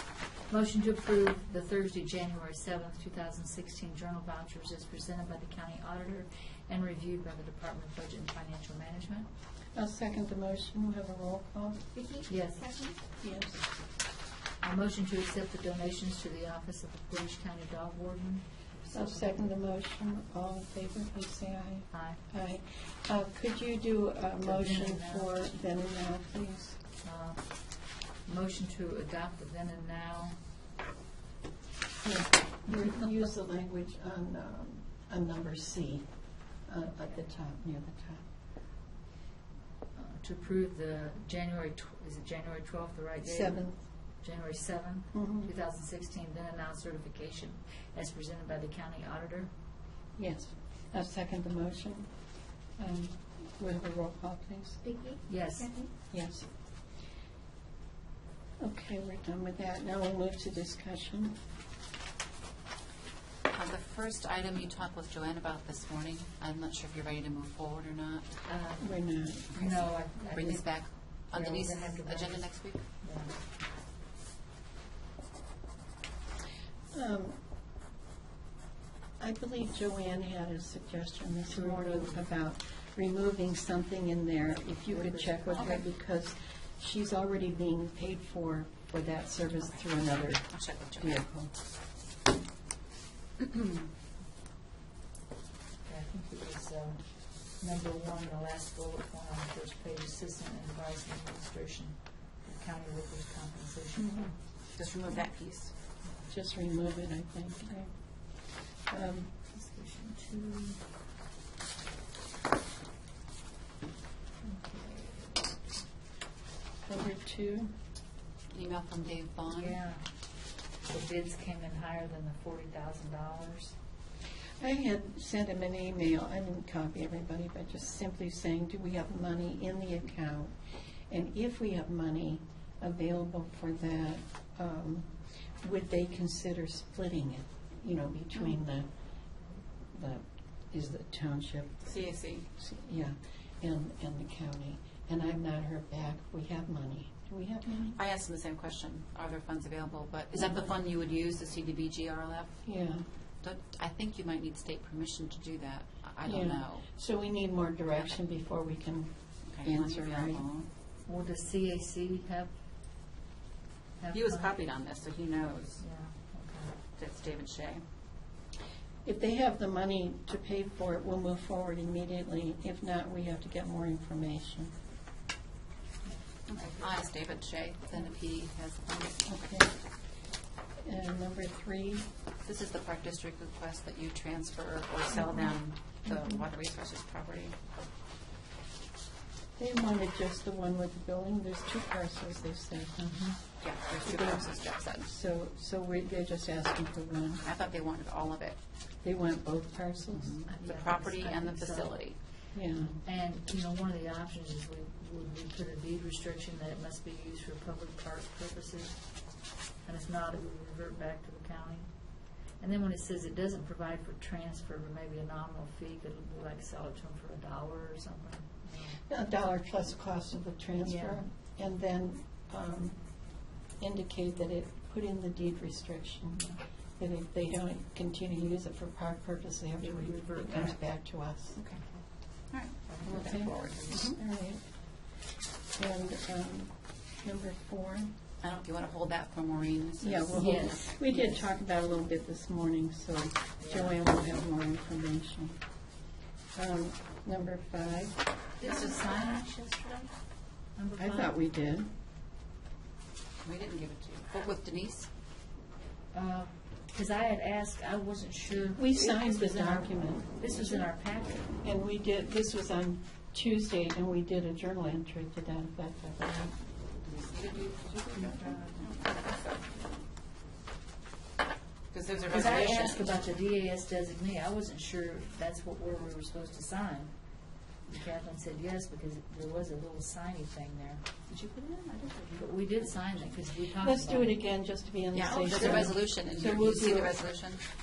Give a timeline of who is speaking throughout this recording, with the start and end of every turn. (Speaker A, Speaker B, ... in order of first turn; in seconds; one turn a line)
Speaker A: 0.5-9.3
Speaker B: 9.8-11.8
Speaker C: 11.9-13.0
Speaker A: 12.3-12.7
Speaker B: 13.2-13.6
Speaker A: 14.6-19.4
Speaker B: 18.9-26.8
Speaker A: 21.9-22.2
Speaker A: 24.4-25.5
Speaker A: 27.0-27.6
Speaker A: 28.2-30.4
Speaker B: 32.0-36.1
Speaker B: 36.7-38.3
Speaker A: 40.0-43.6
Speaker B: 43.2-43.8
Speaker A: 44.2-49.5
Speaker B: 45.1-45.5
Speaker B: 50.2-52.1
Speaker B: 52.8-54.8
Speaker C: 54.8-55.9
Speaker A: 55.3-55.7
Speaker B: 56.1-56.5
Speaker B: 58.6-61.4
Speaker D: 63.5-68.3
Speaker A: 68.5-69.0
Speaker B: 68.8-69.5
Speaker A: 69.5-73.4
Speaker D: 69.5-72.8
Speaker B: 76.9-77.4
Speaker B: 79.2-91.5
Speaker A: 81.5-82.2
Speaker A: 85.1-85.8
Speaker D: 85.4-85.8
Speaker D: 90.5-91.2
Speaker A: 95.8-104.4
Speaker D: 104.8-105.7
Speaker B: 106.3-107.9
Speaker B: 108.9-109.3
Speaker A: 109.5-110.8
Speaker A: 114.4-115.5
Speaker B: 116.9-117.7
Speaker D: 118.5-119.8
Speaker A: 119.5-120.0
Speaker A: 120.9-123.8
Speaker B: 124.6-130.6
Speaker B: 131.1-138.9
Speaker B: 139.9-141.8
Speaker D: 141.8-142.5
Speaker B: 142.6-148.0
Speaker D: 147.9-152.6
Speaker B: 152.7-153.1
Speaker D: 153.4-156.8
Speaker B: 156.2-160.4
Speaker D: 159.5-160.7
Speaker A: 161.1-162.5
Speaker A: 164.0-164.6
Speaker D: 164.1-165.8
Speaker A: 165.8-166.8
Speaker D: 167.0-167.8
Speaker B: 169.1-174.7
Speaker A: 176.0-176.9
Speaker D: 176.5-179.3
Speaker B: 179.3-179.7
Speaker B: 180.8-182.1
Speaker D: 182.4-187.6
Speaker B: 189.6-193.2
Speaker A: 193.0-193.4
Speaker D: 193.6-195.1
Speaker B: 194.0-197.4
Speaker D: 197.4-198.6
Speaker B: 199.0-200.4
Speaker D: 200.1-202.2
Speaker A: 200.5-202.0
Speaker B: 202.5-203.0
Speaker A: 203.0-209.0
Speaker A: 209.8-211.9
Speaker A: 212.6-219.0
Speaker B: 219.1-223.0
Speaker A: 220.8-221.3
Speaker B: 223.8-226.5
Speaker B: 227.0-231.6
Speaker A: 229.8-230.8
Speaker D: 231.6-231.8
Speaker D: 232.5-234.2
Speaker A: 232.9-234.1
Speaker B: 233.0-234.6
Speaker B: 235.8-238.1
Speaker D: 238.4-240.6
Speaker B: 240.0-245.6
Speaker A: 240.3-241.4
Speaker A: 243.6-243.9
Speaker B: 246.6-248.9
Speaker A: 248.6-250.1
Speaker A: 250.8-251.3
Speaker B: 251.0-251.9
Speaker D: 253.4-255.1
Speaker A: 256.1-261.5
Speaker B: 258.8-260.9
Speaker B: 261.6-266.6
Speaker D: 267.0-270.0
Speaker A: 268.4-268.6
Speaker D: 271.9-273.2
Speaker A: 272.3-277.1
Speaker A: 277.9-281.1
Speaker D: 281.3-283.2
Speaker A: 282.4-284.4
Speaker B: 283.7-287.1
Speaker D: 285.1-287.6